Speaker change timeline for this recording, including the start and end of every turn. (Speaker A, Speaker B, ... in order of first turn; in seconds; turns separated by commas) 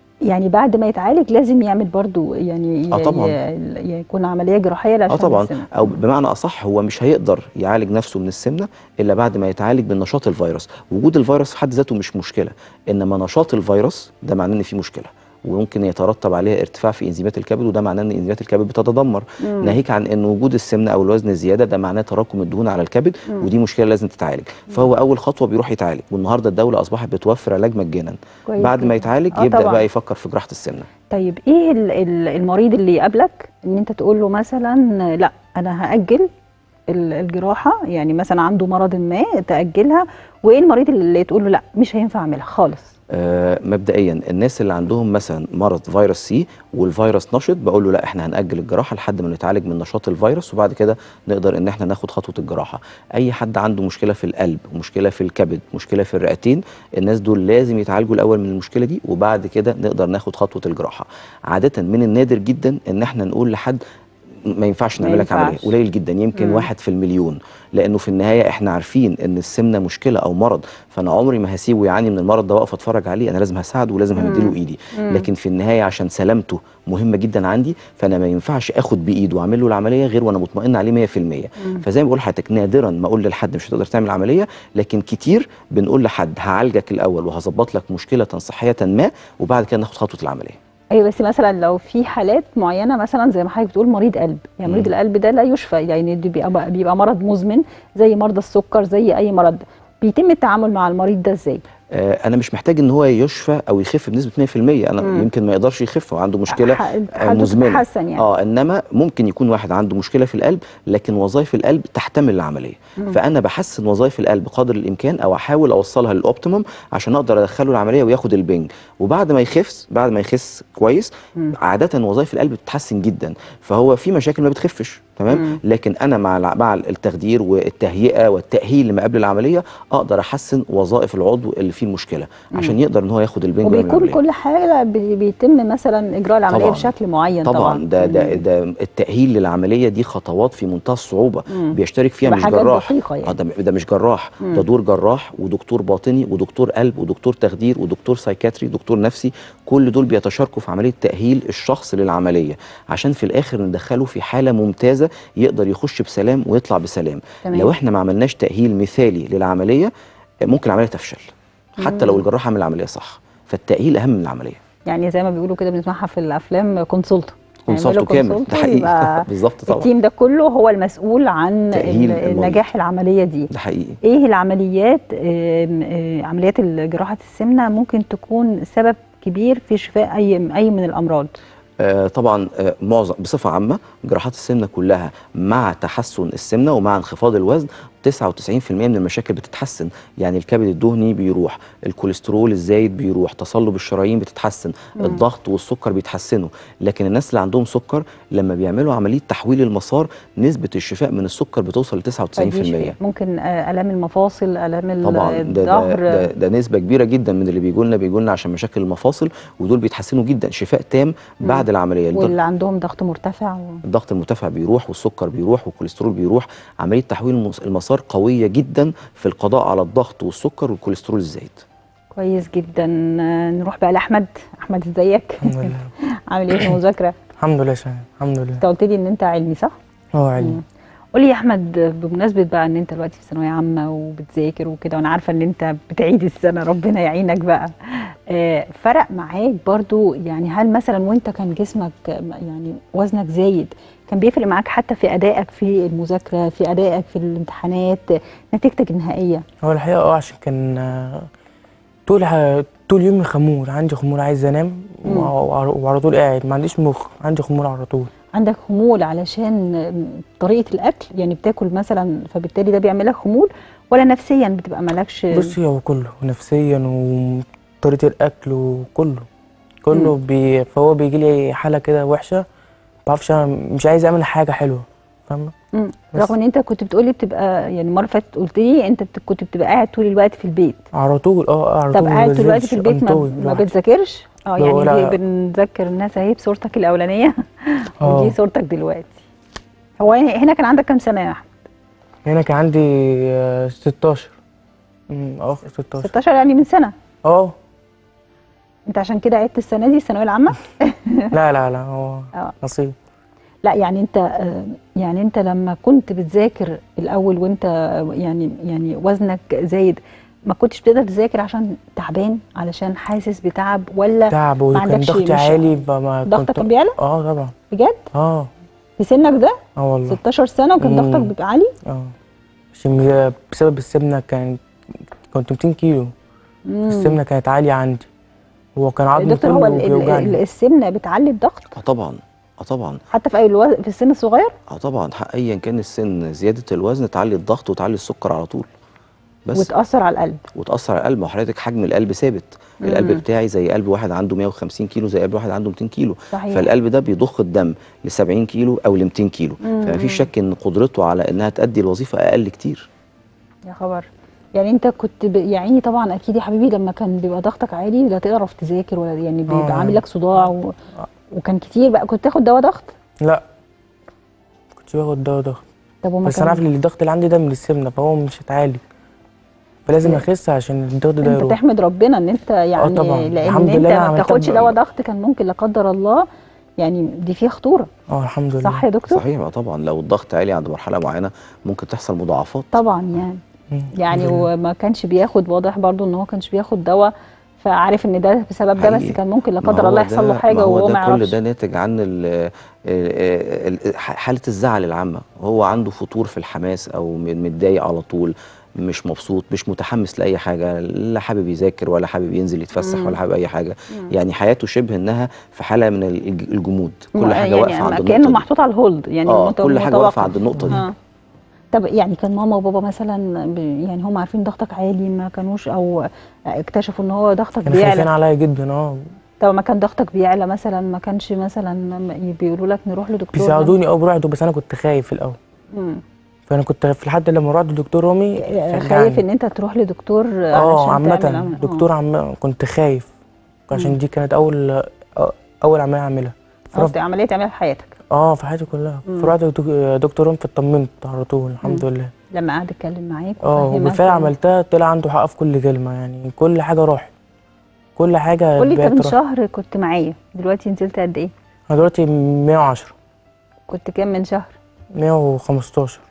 Speaker A: 0.3-5.9, Speaker B: 2.9-3.3, Speaker B: 5.1-30.9, Speaker A: 19.4-19.8, Speaker A: 28.5-29.8, Speaker A: 31.1-36.3, Speaker A: 36.9-42.9, Speaker B: 43.1-63.8, Speaker B: 64.5-90.6, Speaker A: 65.0-65.7, Speaker A: 66.3-66.7, Speaker A: 74.2-75.3, Speaker A: 90.9-101.6, Speaker B: 101.9-134.2, Speaker A: 105.0-105.3, Speaker A: 106.5-108.3, Speaker A: 125.3-125.6, Speaker A: 132.5-132.8, Speaker A: 133.6-138.4, Speaker B: 136.5-136.9, Speaker B: 137.4-159.9, Speaker A: 141.5-143.4, Speaker A: 157.4-157.7, Speaker B: 160.4-161.2, Speaker A: 161.8-162.2, Speaker B: 161.8-164.6, Speaker A: 164.9-173.5, Speaker B: 167.7-169.9, Speaker B: 171.7-172.7, Speaker B: 173.5-174.0, Speaker A: 174.0-181.3, Speaker B: 181.8-202.9, Speaker A: 202.4-206.3, Speaker B: 205.1-212.3, Speaker A: 211.4-213.8, Speaker B: 213.9-221.6, Speaker A: 222.2-225.7, Speaker C: 225.4-225.9, Speaker A: 226.3-227.2, Speaker C: 227.4-228.6, Speaker A: 228.6-229.7, Speaker C: 230.1-230.6, Speaker A: 231.1-249.4, Speaker C: 249.6-251.3, Speaker C: 252.1-258.1, Speaker A: 255.1-255.3, Speaker A: 258.3-265.6, Speaker C: 265.3-269.2, Speaker C: 269.8-272.4, Speaker C: 273.1-275.5, Speaker A: 275.7-280.8, Speaker C: 280.9-283.7, Speaker A: 281.9-289.2, Speaker C: 284.6-285.1, Speaker C: 288.0-288.3, Speaker A: 290.0-291.6, Speaker C: 292.2-294.3, Speaker C: 295.1-296.1, Speaker A: 296.0-296.9, Speaker C: 297.2-297.5, Speaker A: 298.9-301.3, Speaker C: 301.3-302.9, Speaker A: 303.6-315.7, Speaker C: 314.3-317.5, Speaker A: 316.2-316.9, Speaker A: 317.7-318.0, Speaker C: 318.1-318.5, Speaker A: 319.0-319.6, Speaker C: 319.8-320.2, Speaker A: 320.1-321.7, Speaker C: 320.8-321.3, Speaker C: 321.9-322.1, Speaker C: 322.7-324.6, Speaker C: 325.3-326.1, Speaker A: 326.7-327.2, Speaker C: 326.9-328.1, Speaker C: 328.8-330.4, Speaker A: 329.2-331.7, Speaker B: 331.8-333.0, Speaker A: 333.1-334.5, Speaker B: 334.7-338.7, Speaker A: 339.5-340.4, Speaker B: 340.6-352.9, Speaker A: 342.8-343.2, Speaker A: 346.3-346.7, Speaker A: 349.6-350.3, Speaker A: 353.7-360.7, Speaker C: 359.5-360.0, Speaker A: 361.3-362.9, Speaker C: 364.8-365.6, Speaker A: 366.0-366.7, Speaker C: 366.2-368.8, Speaker C: 369.9-371.6, Speaker A: 371.2-376.2, Speaker C: 372.8-374.8, Speaker A: 376.8-377.9, Speaker C: 378.1-378.8, Speaker A: 378.6-379.2, Speaker B: 379.1-382.7, Speaker A: 382.7-383.4, Speaker C: 383.7-384.5, Speaker A: 383.9-391.4, Speaker B: 388.8-408.4, Speaker A: 402.8-403.2, Speaker A: 407.1-410.9, Speaker B: 409.3-410.8, Speaker C: 410.6-410.8, Speaker A: 411.7-418.1, Speaker C: 417.7-419.0, Speaker A: 419.4-423.8, Speaker C: 423.3-425.4, Speaker A: 425.7-426.0, Speaker C: 426.5-429.2, Speaker A: 428.4-431.9, Speaker C: 430.6-433.1, Speaker C: 433.7-436.9, Speaker A: 436.8-437.9, Speaker C: 438.1-442.1, Speaker A: 439.1-439.3, Speaker A: 441.6-444.3, Speaker C: 443.4-447.1, Speaker C: 448.0-449.1, Speaker A: 448.6-451.3, Speaker C: 451.7-452.9, Speaker A: 453.7-454.6, Speaker C: 454.9-456.0